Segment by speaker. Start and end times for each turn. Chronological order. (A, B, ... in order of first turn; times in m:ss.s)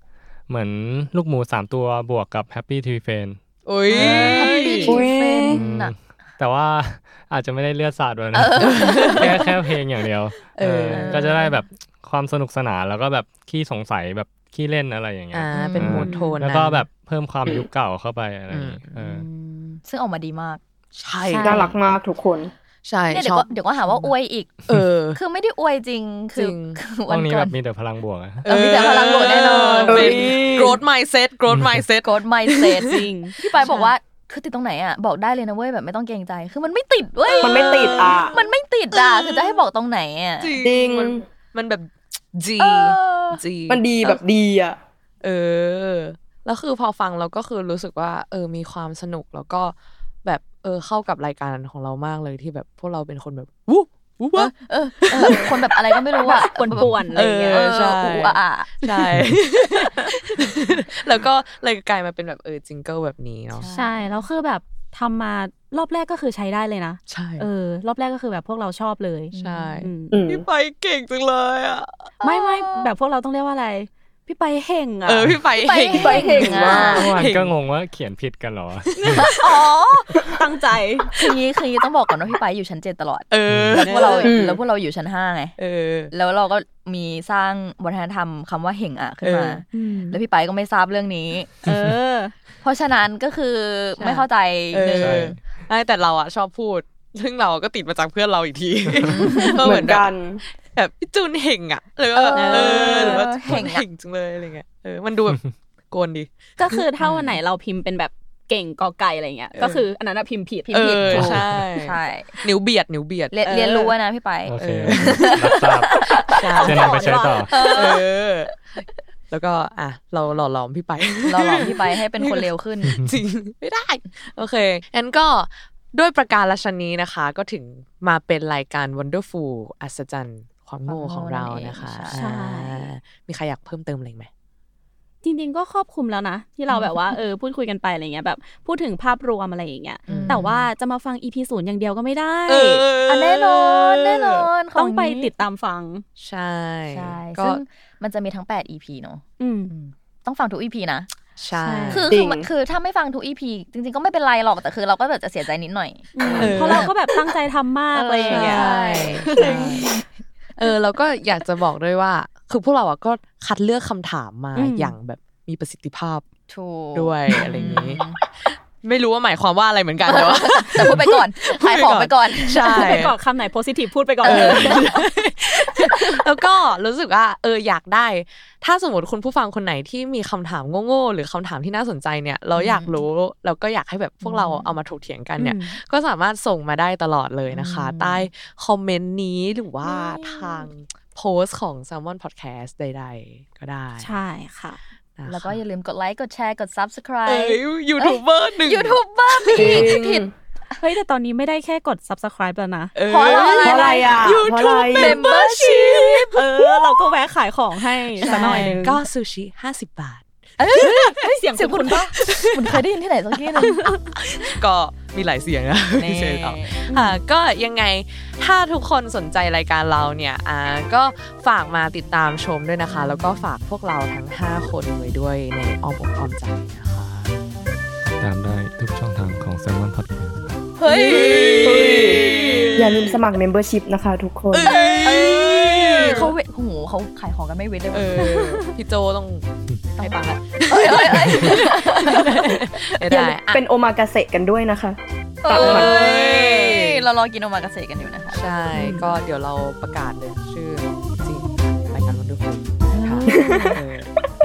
0:00.5-0:04.5 A
0:03.6-0:05.0 B
0:03.9-0:05.9 C
0:04.8-0:05.6 D
0:05.5-0:19.2 A
0:08.3-0:09.5 C
0:08.6-0:09.3 B
0:10.5-0:11.3 B
0:10.9-0:11.6 C
0:15.3-0:16.9 B
0:15.5-0:16.3 C
0:15.6-0:16.4 E
0:18.5-0:18.8 B
0:18.9-0:20.6 C
0:20.9-0:21.7 B
0:21.2-0:21.6 E
0:21.4-0:22.5 D
0:22.8-0:24.1 B
0:23.1-0:24.5 C
0:24.7-0:25.2 B
0:25.1-0:27.5 C
0:26.3-0:26.8 B
0:27.1-0:28.4 A
0:28.4-0:33.9 B
0:28.4-0:30.3 C
0:28.8-0:30.8 D
0:31.5-0:31.8 A
0:32.0-0:40.5 C
0:32.9-0:33.3 E
0:37.2-0:38.4 B
0:37.4-0:38.3 D
0:38.9-0:39.6 B
0:40.4-0:43.9 B
0:40.6-0:41.2 D
0:42.6-0:43.4 C
0:43.7-0:44.8 D
0:45.2-0:56.5 B
0:54.3-0:59.1 C
0:56.3-0:57.6 E
0:57.1-1:03.7 B
0:59.6-1:00.1 C
1:03.5-1:04.2 C
1:03.7-1:10.2 E
1:07.1-1:07.5 B
1:09.3-1:09.8 C
1:09.3-1:12.1 B
1:10.1-1:10.4 D
1:12.2-1:12.9 C
1:12.2-1:15.4 E
1:15.0-1:17.5 B
1:15.6-1:17.1 C
1:15.9-1:17.1 D
1:17.0-1:19.3 A
1:19.1-1:21.1 E
1:21.2-1:25.6 C
1:23.3-1:24.6 B
1:23.5-1:23.8 A
1:23.8-1:24.3 E
1:24.2-1:24.6 D
1:25.6-1:26.1 B
1:26.1-1:31.5 C
1:29.2-1:30.2 B
1:31.6-1:32.3 E
1:32.6-1:35.3 C
1:34.0-1:46.8 B
1:35.0-1:35.4 A
1:38.9-1:39.3 A
1:39.1-1:39.6 C
1:39.4-1:40.4 D
1:42.1-1:43.8 C
1:42.3-1:43.2 E
1:46.6-1:51.3 E
1:47.0-1:47.4 C
1:49.5-1:49.9 B
1:50.7-1:53.9 B
1:50.7-1:52.4 C
1:51.0-1:51.5 A
1:53.3-1:56.8 C
1:54.4-1:56.0 A
1:54.6-1:55.4 B
1:56.3-1:57.8 E
1:56.4-1:58.5 B
1:56.6-1:57.5 A
1:57.5-1:58.1 C
1:59.3-2:14.3 B
2:01.2-2:03.0 C
2:10.9-2:12.2 C
2:12.1-2:12.9 E
2:15.2-2:22.9 E
2:16.7-2:17.2 C
2:20.1-2:20.7 C
2:20.1-2:20.5 B
2:22.4-2:24.5 B
2:23.0-2:25.3 C
2:24.7-2:26.0 E
2:26.2-2:27.6 B
2:26.9-2:31.1 C
2:29.4-2:29.7 E
2:31.4-2:32.1 B
2:31.6-2:32.0 E
2:31.9-2:36.9 C
2:32.1-2:32.5 D
2:36.1-2:38.7 E
2:36.2-2:36.5 D
2:36.4-2:36.9 B
2:37.9-2:40.0 C
2:38.2-2:39.9 B
2:39.4-2:39.8 D
2:40.6-2:46.2 B
2:44.5-2:45.0 E
2:46.5-2:48.2 C
2:46.9-2:48.0 B
2:48.7-2:53.1 B
2:50.0-2:53.0 C
2:52.6-2:54.9 E
2:54.2-2:55.1 C
2:54.2-3:14.2 B
2:55.8-2:56.2 C
3:02.5-3:03.0 C
3:04.2-3:04.7 C
3:05.4-3:05.7 E
3:07.5-3:08.3 C
3:14.0-3:14.8 E
3:15.2-3:15.6 B
3:15.2-3:20.3 C
3:17.2-3:20.0 B
3:19.5-3:20.3 D
3:20.8-3:22.9 E
3:22.9-3:26.6 B
3:23.0-3:24.4 C
3:23.6-3:25.2 D
3:24.9-3:26.4 C
3:26.3-3:29.0 E
3:28.2-3:31.2 B
3:28.2-3:28.8 C
3:30.6-3:33.8 C
3:30.8-3:32.1 E
3:32.2-3:32.8 B
3:33.7-3:34.0 E
3:34.3-3:47.3 B
3:36.0-3:36.8 C
3:36.9-3:37.2 E
3:42.8-3:43.4 C
3:48.0-3:50.6 A
3:50.8-3:51.9 C
3:50.8-3:53.2 B
3:51.6-3:54.8 D
3:54.5-3:56.3 B
3:55.0-3:58.6 C
3:56.0-3:56.3 D
3:57.9-3:59.4 B
4:00.0-4:03.0 C
4:00.0-4:03.6 B
4:03.0-4:05.9 D
4:05.4-4:08.4 C
4:05.6-4:07.0 B
4:08.3-4:14.1 B
4:08.7-4:09.1 E
4:12.9-4:13.7 E
4:13.3-4:13.7 D